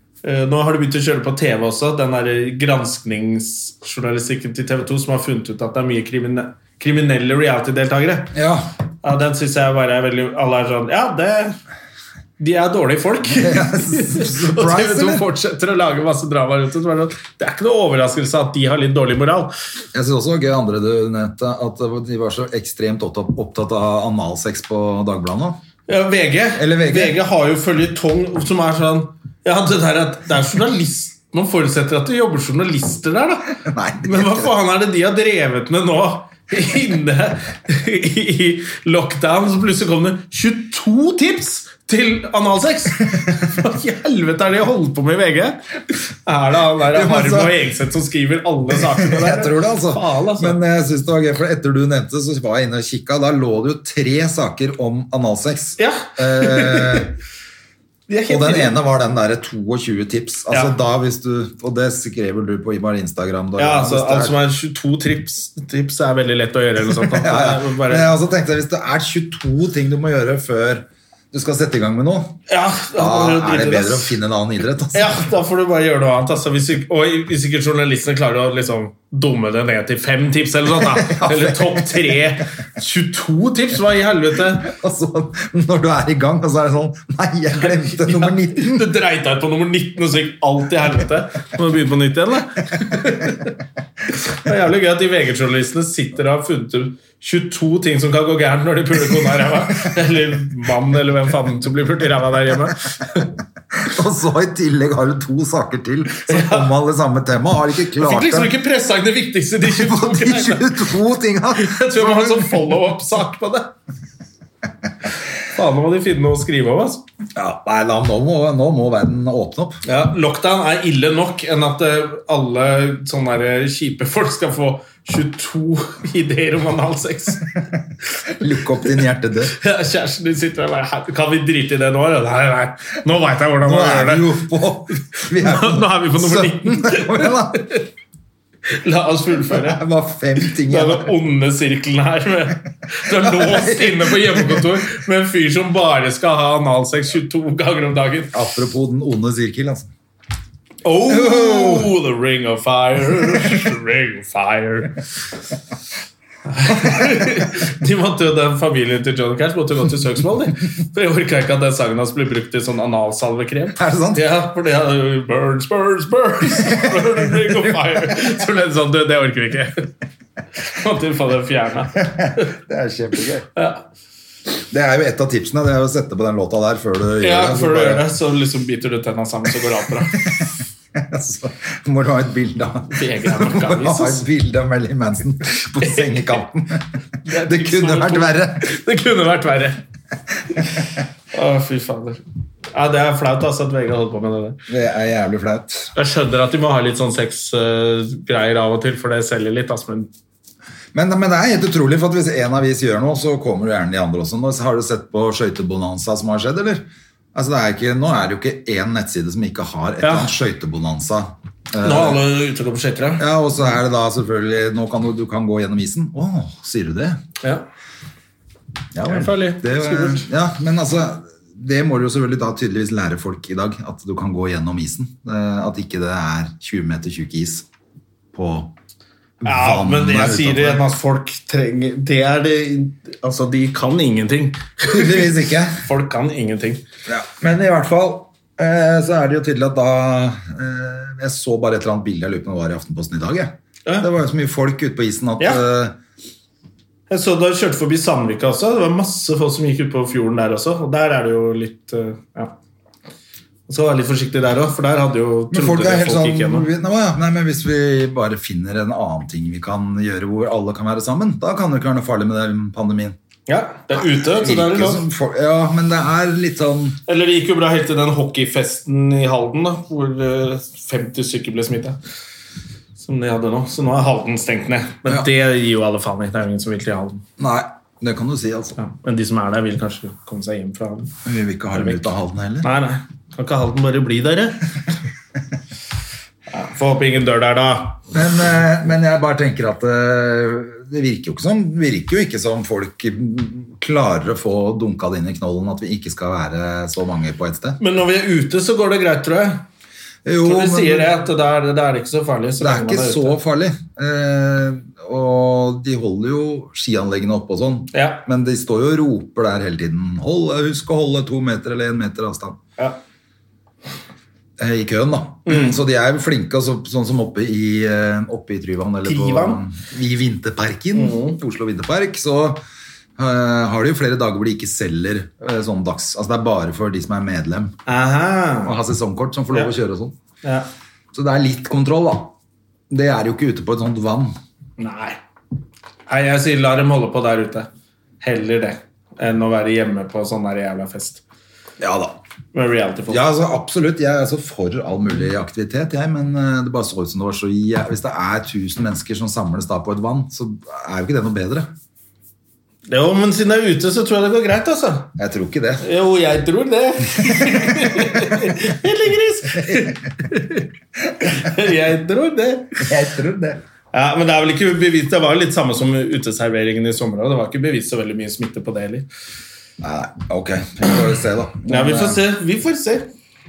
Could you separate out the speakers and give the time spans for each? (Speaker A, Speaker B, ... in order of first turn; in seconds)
Speaker A: 0.2-8.3, 9.0-11.6, 12.4-19.5, 25.9-45.6, 46.2-50.6, 55.8-57.1, 58.1-58.8, 63.6-68.1, 72.5-74.2, 74.9-84.7, 87.6-93.5, 94.3-103.3, 106.3-106.7, 108.0-110.8, 111.5-113.7, 115.5-117.0, 119.8-127.5, 129.5-134.5, 135.1-137.8, 138.7-139.8, 140.4-148.3, 150.8-155.0, 156.5-169.9, 170.6-172.5, 173.6-173.8, 177.2-180.4, 182.9-184.2, 185.8-186.1, 187.2-189.8, 191.3-192.2, 192.7-194.6, 195.9-200.1, 210.0-210.3, 211.8-213.2, 219.0-220.3, 229.4-235.3, 235.8-236.8, 247.1-252.5, 253.7-256.7, 263.5-265.0, 267.1-272.0, 273.0-277.2, 278.8-281.1, 281.7-282.1, 282.6-284.6, 286.5-288.1, 297.8-299.6, 300.4-303.4, 307.9-308.2, 315.4-315.8, 319.0-319.6, 320.9-321.4, 327.9-328.8, 330.4-330.7, 334.8-335.2, 336.1-337.7, 338.2-341.2, 342.5-343.2, 352.9-355.1, 355.8-360.7, 361.2-362.9, 363.9-369.1, 371.7-373.1
Speaker B: 8.3-8.7, 13.3-15.2, 19.9-25.6, 26.5-27.2, 33.6-34.5, 46.9-47.5, 48.7-57.1, 58.3-64.4, 66.9-72.4, 72.9-75.2, 80.7-82.2, 84.5-88.9, 103.8-108.5, 109.6-112.7, 117.3-119.8, 128.3-129.6, 133.6-137.7, 139.5-141.1, 143.1-144.8, 148.3-149.9, 151.1-151.9, 156.8-157.1, 163.7-164.3, 166.6-168.3, 171.9-173.5, 174.7-178.0, 180.2-188.7, 194.7-195.9, 200.9-212.2, 213.2-217.2, 218.9-227.7, 228.3-228.7, 229.4-230.9, 234.9-235.8, 237.1-246.0, 255.5-263.1, 263.9-267.0, 277.4-278.8, 281.2-282.7, 288.1-297.8, 300.2-301.1, 302.6-312.6, 314.6-322.6, 323.2-327.7, 328.6-330.1, 331.1-332.3, 332.9-334.4, 341.8-342.2, 343.1-351.7, 355.2-355.8, 357.2-358.5, 359.6-360.0, 362.8-363.6, 369.8-372.2